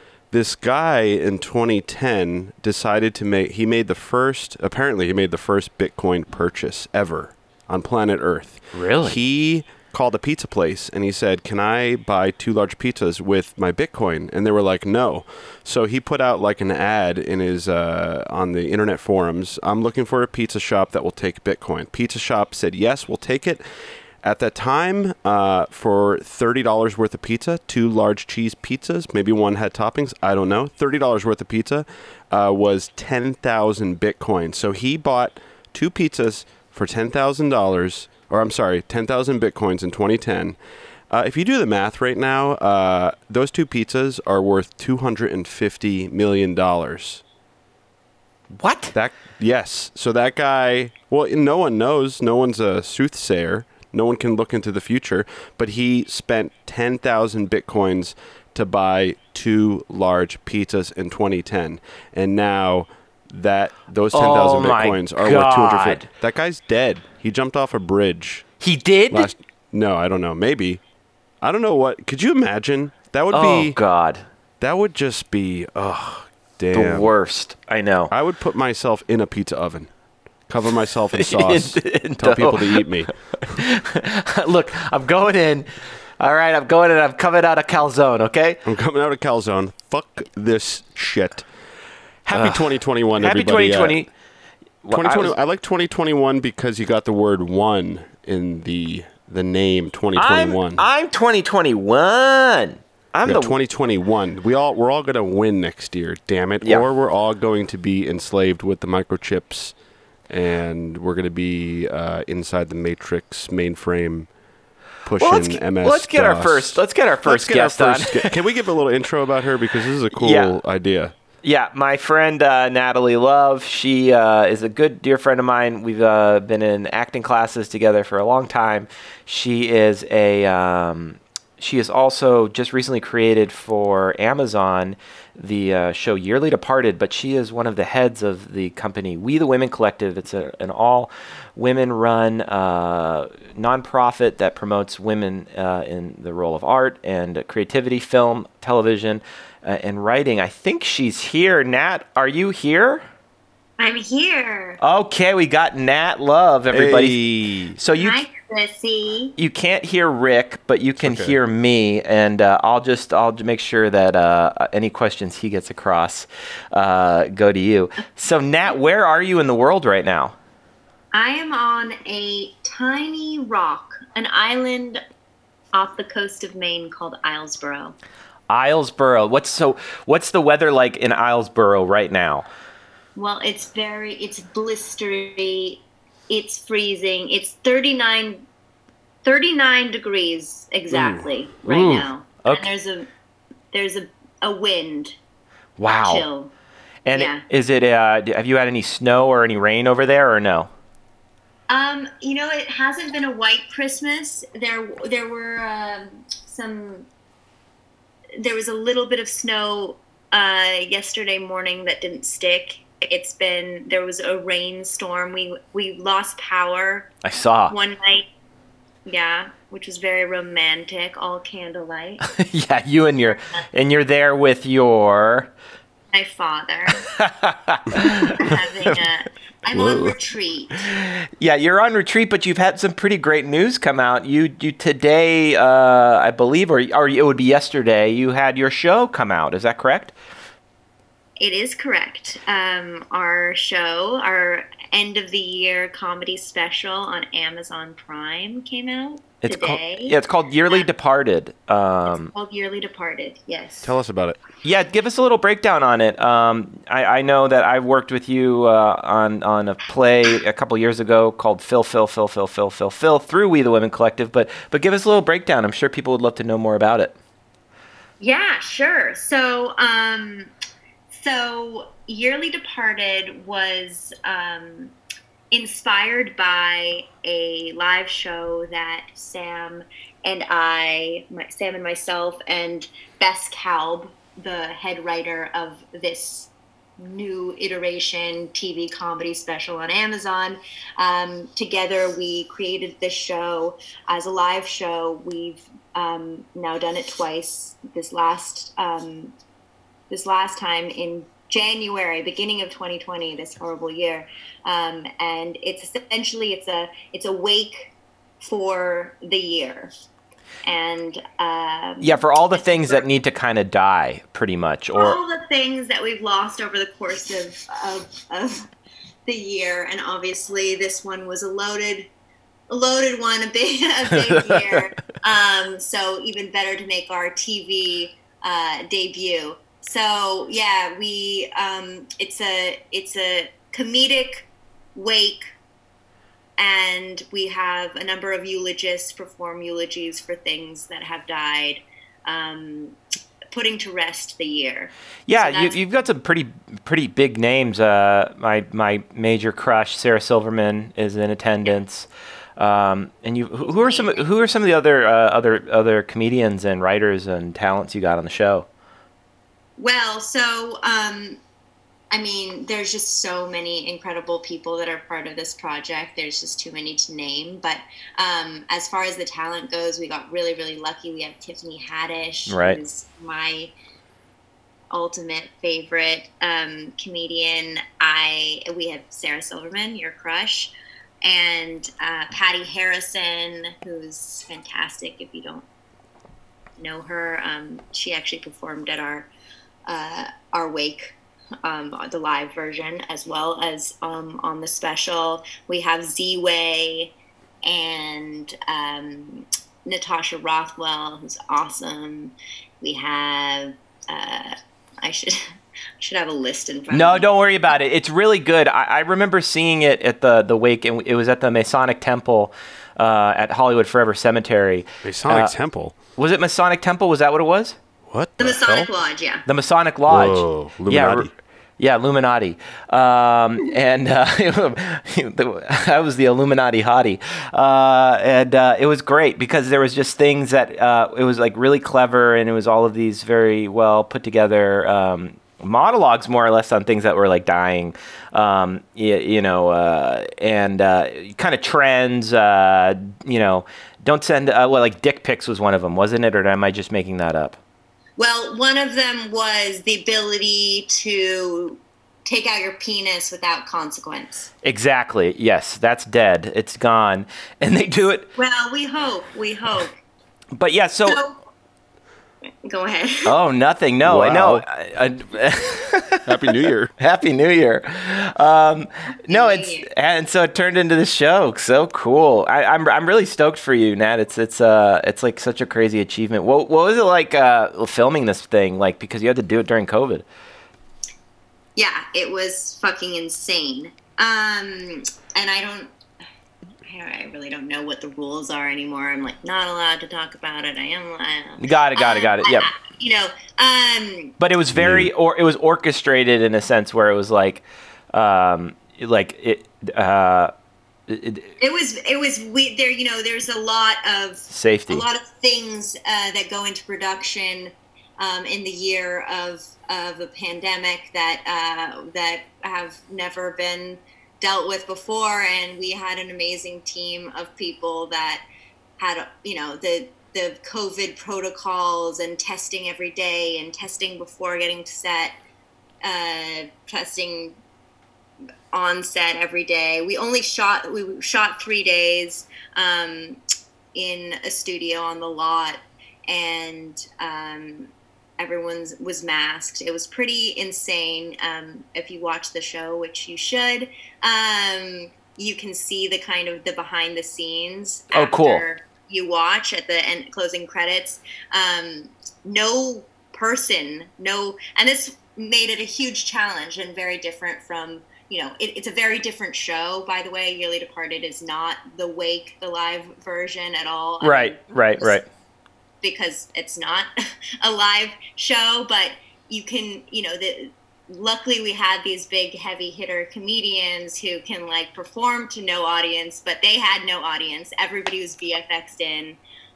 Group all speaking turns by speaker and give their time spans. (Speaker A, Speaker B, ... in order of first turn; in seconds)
Speaker A: 0.3-23.6, 24.2-40.6, 41.1-47.2, 48.9-68.5, 69.1-70.8, 71.4-73.8, 74.6-77.1, 78.1-79.9, 80.5-83.1, 88.7-91.5, 92.2-94.0, 94.9-100.8, 103.2-109.8, 110.3-114.3, 115.0-121.2, 156.7-157.8, 161.0-161.4, 229.7-230.2, 253.8-254.4, 415.0-416.0, 418.1-418.9, 420.1-421.3, 464.0-464.6, 466.2-466.9, 494.7-495.1
Speaker B: 8.7-9.2, 48.6-48.9, 64.1-66.1, 68.6-69.3, 73.3-74.3, 76.7-78.1, 81.1-85.7, 86.2-88.6, 92.3-94.1, 94.8-95.3, 100.2-103.6, 115.2-118.4, 120.1-120.6, 121.4-153.1, 154.8-157.2, 157.7-158.2, 159.4-170.4, 178.5-182.5, 191.0-192.7, 195.8-196.2, 197.1-200.7, 217.2-217.8, 222.2-225.5, 227.1-228.4, 230.9-240.1, 249.4-252.3, 254.6-267.1, 312.0-315.2, 324.2-324.9, 345.3-352.1, 352.6-358.7, 372.5-372.8, 406.9-415.5, 416.2-417.8, 419.5-447.6, 454.6-458.3, 460.6-461.2, 463.3-466.4, 467.0-480.2, 491.6-492.7, 494.4-500.5, 501.1-501.5, 504.5-505.1, 548.1-548.6, 564.2-565.3
Speaker C: 153.8-154.8, 158.0-159.3, 171.1-175.0, 175.7-178.0, 183.2-188.4, 189.2-193.1, 193.7-195.2, 196.1-196.5, 197.1-197.4, 201.7-207.1, 208.4-217.1, 217.7-218.3, 219.1-222.3, 226.1-227.0, 228.3-230.9, 241.4-250.2, 252.1-253.9, 268.2-270.5, 271.1-274.9, 275.5-299.3, 300.1-307.9, 308.4-309.9, 310.6-313.1, 314.9-318.7, 319.3-322.1, 322.7-335.4, 336.6-342.9, 343.5-346.1, 353.6-354.3, 359.8-361.4, 362.1-373.7, 374.9-385.7, 386.8-389.3, 389.9-397.1, 397.6-405.5, 406.0-407.3, 418.4-419.4, 448.2-454.5, 458.4-459.9, 461.1-461.4, 462.6-463.4, 469.3-469.9, 481.8-485.9, 486.9-494.4, 501.6-518.4, 519.0-525.4, 526.0-527.6, 528.7-533.4, 533.9-565.2, 566.0-567.1, 567.6-579.4